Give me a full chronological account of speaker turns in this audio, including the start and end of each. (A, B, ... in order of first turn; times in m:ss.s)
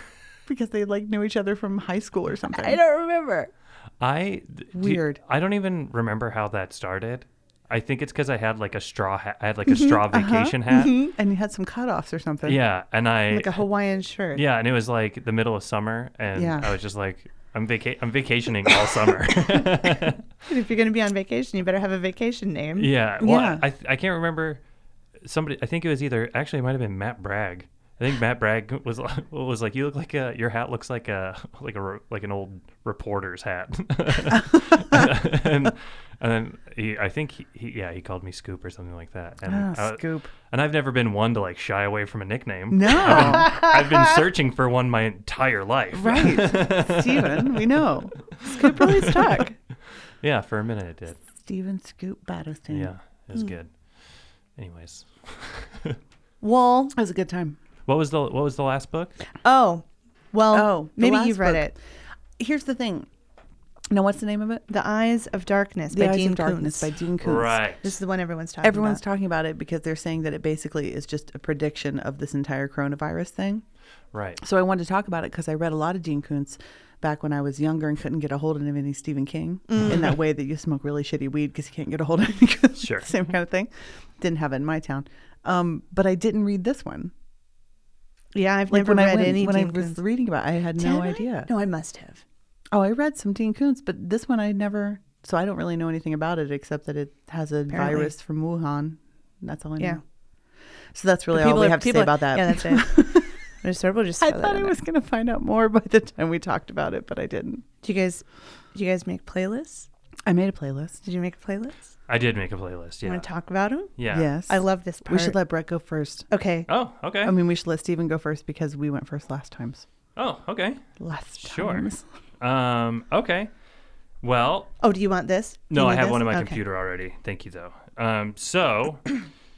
0:00.5-0:02.8 A
0:02.5-0:03.5 B
0:04.0-0:11.0 C
0:04.8-0:05.2 A
0:10.1-0:12.6 A
0:10.7-0:11.1 B
0:12.4-0:13.6 C
0:13.3-0:14.4 B
0:14.3-0:20.3 C
0:16.4-0:16.7 A
0:20.5-0:22.9 B
0:22.8-0:24.6 C
0:23.2-0:23.6 A
0:25.2-0:49.3 C
0:39.5-0:40.3 A
0:42.7-0:43.5 A
0:43.3-0:43.7 B
0:45.9-0:48.2 A
0:48.4-0:49.5 B
0:50.2-0:51.2 C
0:51.3-0:52.9 A
0:52.7-0:53.7 C
0:54.6-0:56.0 C
0:56.4-0:56.9 B
0:56.9-0:57.6 A
0:57.9-0:59.1 C
0:59.4-1:01.7 B
1:00.5-1:01.8 A
1:02.4-1:03.1 A
1:03.9-1:04.6 A
1:04.7-1:06.9 B
1:05.9-1:07.6 A
1:07.2-1:07.8 C
1:07.8-1:09.0 B
1:08.6-1:13.6 A
1:14.1-1:14.4 C
1:14.4-1:27.1 A
1:19.7-1:20.0 B
1:22.8-1:23.1 C
1:28.3-1:30.0 B
1:28.7-1:31.5 A
1:30.8-1:32.2 B
1:32.7-1:40.0 A
1:37.7-1:38.1 B
1:40.9-1:43.3 A
1:41.3-1:44.8 B
1:44.2-1:47.6 A
1:47.8-1:49.9 B
1:50.2-1:51.0 A
1:51.0-1:51.8 B
1:52.1-1:53.3 C
1:53.0-1:55.4 B
1:54.0-1:54.3 C
1:54.1-1:56.3 A
1:56.3-1:56.7 B
1:56.7-1:57.4 C
1:57.2-1:59.8 A
2:00.2-2:00.8 C
2:01.0-2:02.0 A
2:01.4-2:01.9 C
2:02.4-2:03.5 C
2:04.2-2:04.8 C
2:04.8-2:06.6 B
2:05.7-2:09.2 C